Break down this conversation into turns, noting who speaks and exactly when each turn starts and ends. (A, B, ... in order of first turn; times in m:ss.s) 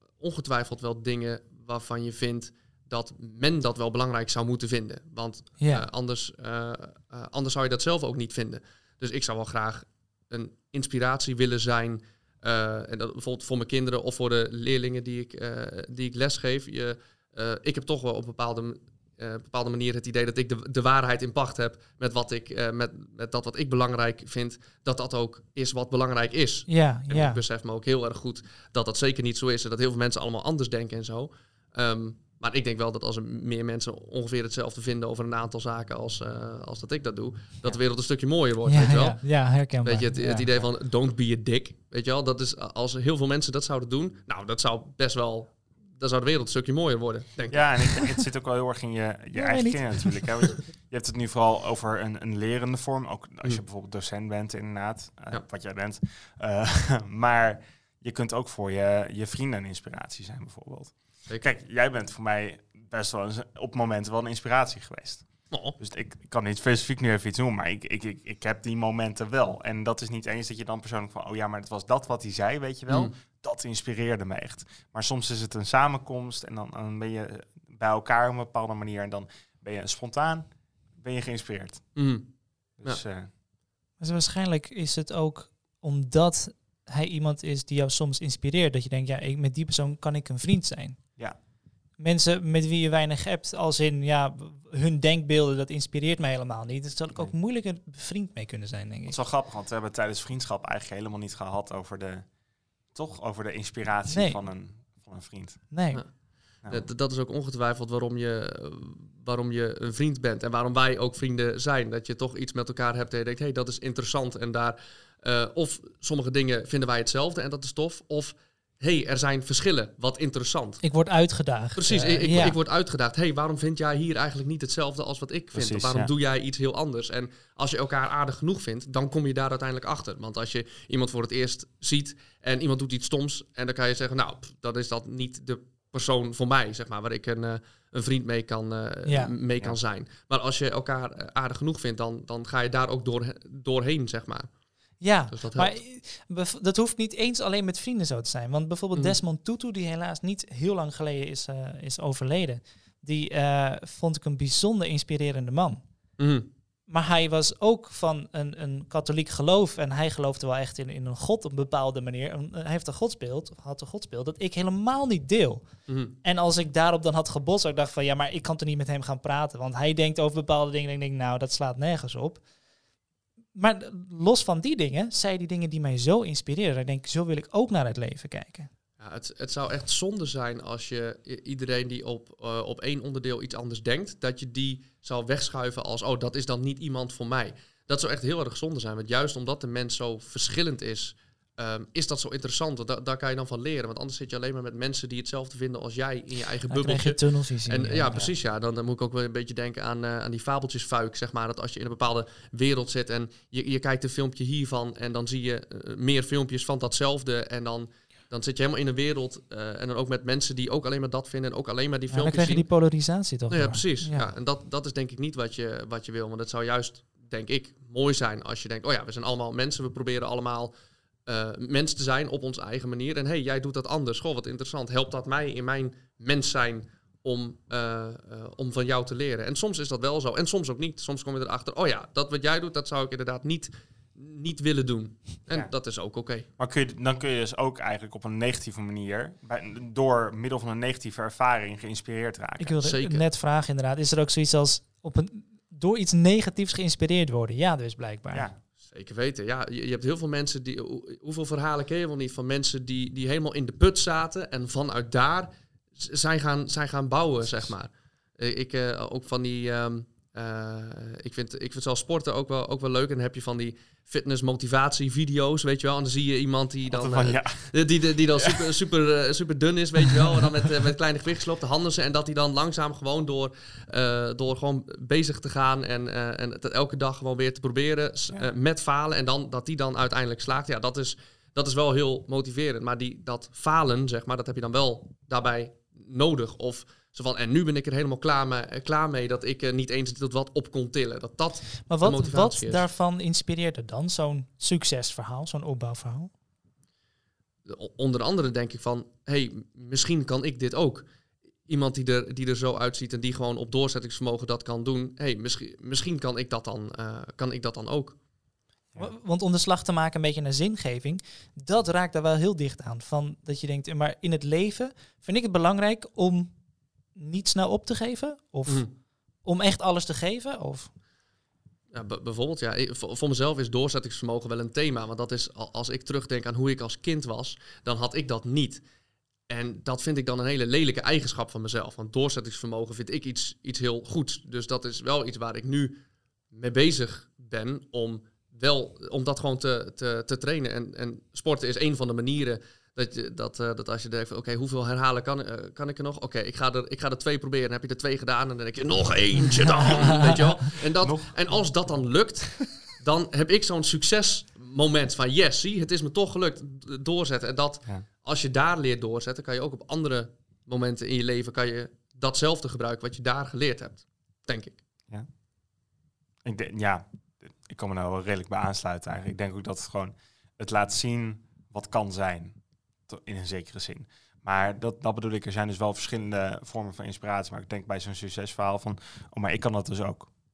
0:00.2-0:48.1 A
0:05.6-0:05.8 B
0:26.7-0:27.4 B
0:38.6-0:40.4 B
0:47.5-1:21.9 C
0:49.4-0:50.1 B
1:05.5-1:05.8 A
1:12.9-1:13.1 A
1:22.0-1:23.0 A
1:22.8-1:23.3 C
1:24.0-1:31.0 B
1:32.0-1:39.2 B
1:39.1-1:42.3 C
1:42.9-1:45.7 C
1:44.1-1:44.4 B
1:45.7-1:46.0 B
1:45.9-2:00.8 A
2:00.8-2:02.6 B
2:01.7-2:24.5 A
2:05.5-2:06.1 C
2:19.1-2:19.3 B
2:25.0-2:35.8 B
2:25.3-2:25.8 A
2:36.2-2:36.5 A
2:36.9-2:52.4 B
2:45.9-2:46.2 A
2:53.5-2:58.7 B
2:59.0-3:32.7 A
3:16.7-3:18.2 B
3:32.1-3:34.3 B
3:33.5-3:40.7 A
3:41.2-3:56.5 A
3:56.6-4:02.8 C
4:02.6-4:08.5 B
4:02.8-4:03.2 A
4:08.8-4:52.8 A
4:26.9-4:27.7 C
4:28.4-4:28.7 C
4:51.9-4:56.3 B
4:57.6-5:01.0 A
5:01.7-5:08.2 A
5:09.0-5:16.5 B
5:17.1-5:18.9 B
5:19.4-5:20.9 B
5:21.9-5:28.8 A
5:29.5-5:36.0 A
5:36.5-6:04.8 A
5:49.6-5:50.5 B
5:49.8-5:50.4 C
5:51.0-5:51.3 C
6:06.4-6:20.3 C